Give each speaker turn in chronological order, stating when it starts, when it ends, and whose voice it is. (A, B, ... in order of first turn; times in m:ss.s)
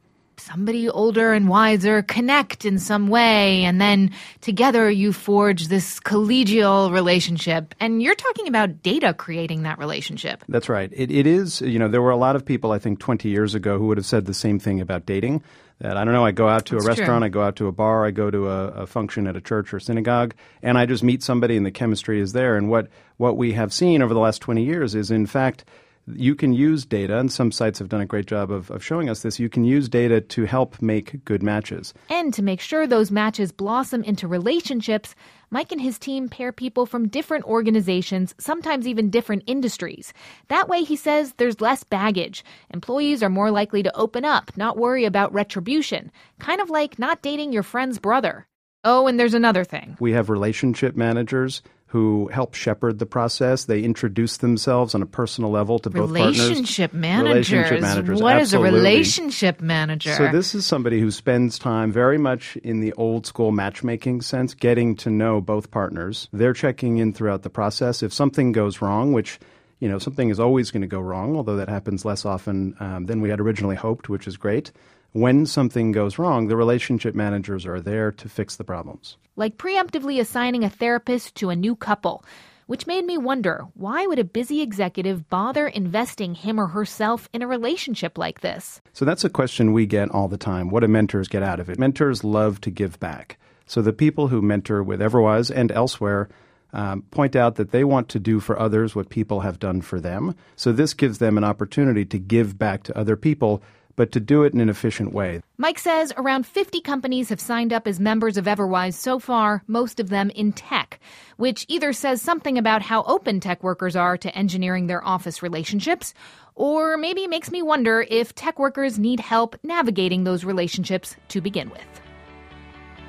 0:00.4-0:10.4 A
0:10.5-0:31.9 B
0:16.7-0:17.2 A
0:32.1-0:50.0 A
0:50.0-0:59.2 B
0:55.9-1:00.4 A
1:00.0-1:19.2 B
1:19.4-1:28.8 A
1:28.9-1:45.4 B
1:45.6-2:02.0 A